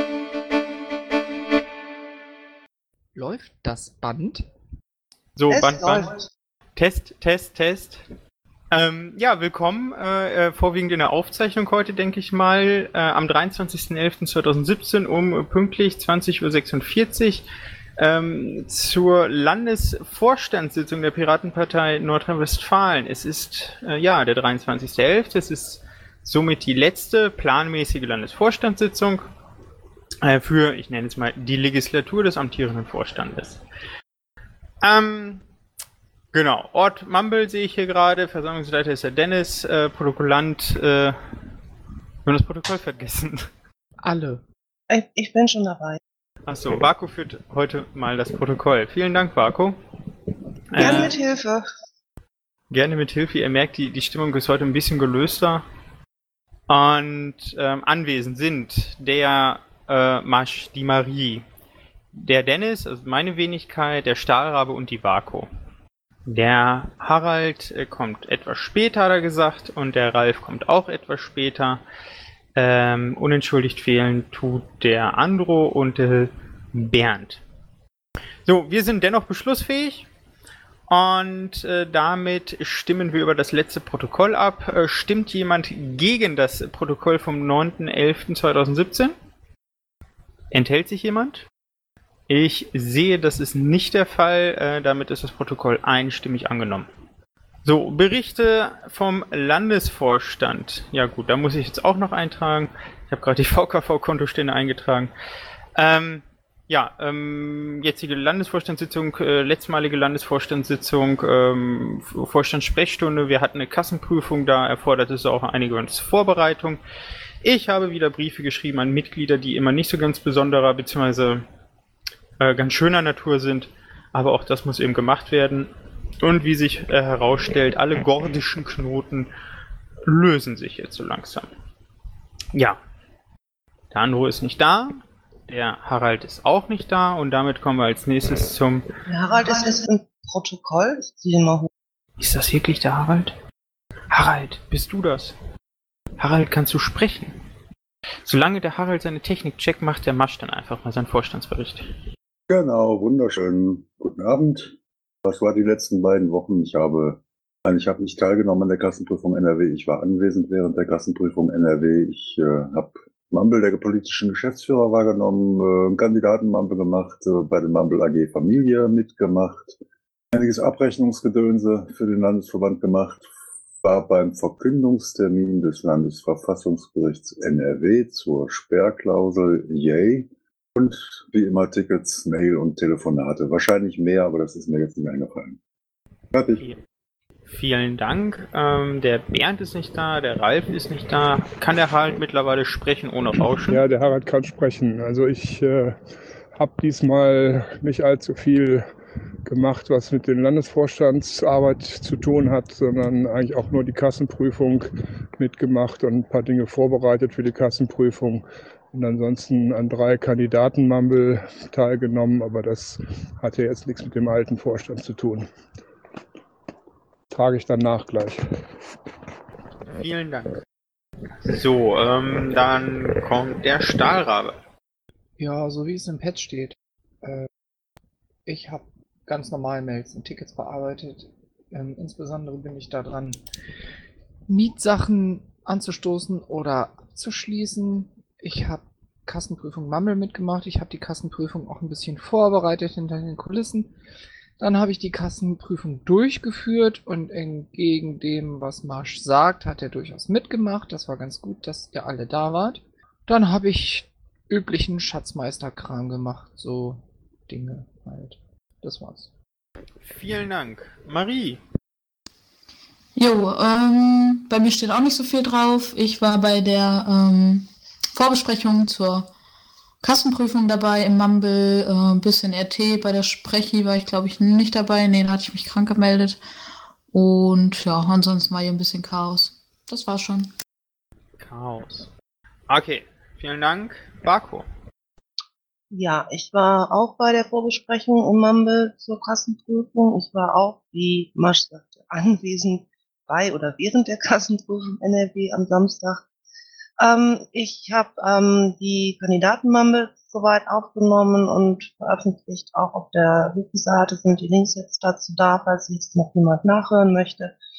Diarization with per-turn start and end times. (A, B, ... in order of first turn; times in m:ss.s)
0:03.2-0:04.5 A
0:05.4-0:06.1 B
0:05.5-0:06.3 C
0:06.8-0:08.0 B
0:08.7-0:17.5 B
0:18.0-0:29.2 B
0:30.2-0:33.6 B
0:34.8-0:35.4 B
0:36.3-0:41.2 B
0:42.2-0:43.5 B
0:44.0-0:44.4 A
0:44.9-0:46.0 C
0:46.5-0:49.8 B
0:50.7-0:51.2 B
0:50.8-0:51.7 C
0:52.7-0:55.6 B
0:56.7-1:01.4 B
1:02.1-1:05.5 B
1:06.3-1:11.8 B
1:12.6-1:17.4 B
1:18.5-1:20.1 B
1:20.9-1:29.2 B
1:30.5-1:31.5 B
1:32.3-1:36.9 B
1:37.6-1:45.1 B
1:45.8-1:56.8 B
1:57.4-2:01.4 B
2:02.4-2:09.3 B
2:10.0-2:11.5 B
2:12.5-2:12.8 B
2:13.9-2:18.9 B
2:19.1-2:21.7 C
2:22.2-2:23.4 B
2:24.1-2:25.4 B
2:26.2-2:27.3 B
2:28.2-2:31.9 B
2:32.5-2:49.8 D
2:50.3-2:53.3 D
2:53.8-3:05.6 D
3:06.3-3:06.6 D
3:07.5-3:13.8 B
3:13.7-3:18.9 E
3:19.5-3:35.5 E
3:37.3-3:38.6 E
3:40.0-3:40.5 B
3:41.4-3:44.6 B
3:45.4-3:47.5 A
3:48.5-3:53.4 A
3:54.5-4:03.9 A
4:04.6-4:19.3 A
4:20.0-4:21.6 B
4:23.2-4:29.3 F
4:30.0-4:36.4 F
4:37.1-4:40.5 F
4:41.4-4:42.1 B
4:42.7-4:44.6 B
4:45.9-4:56.3 C
4:57.0-5:07.6 C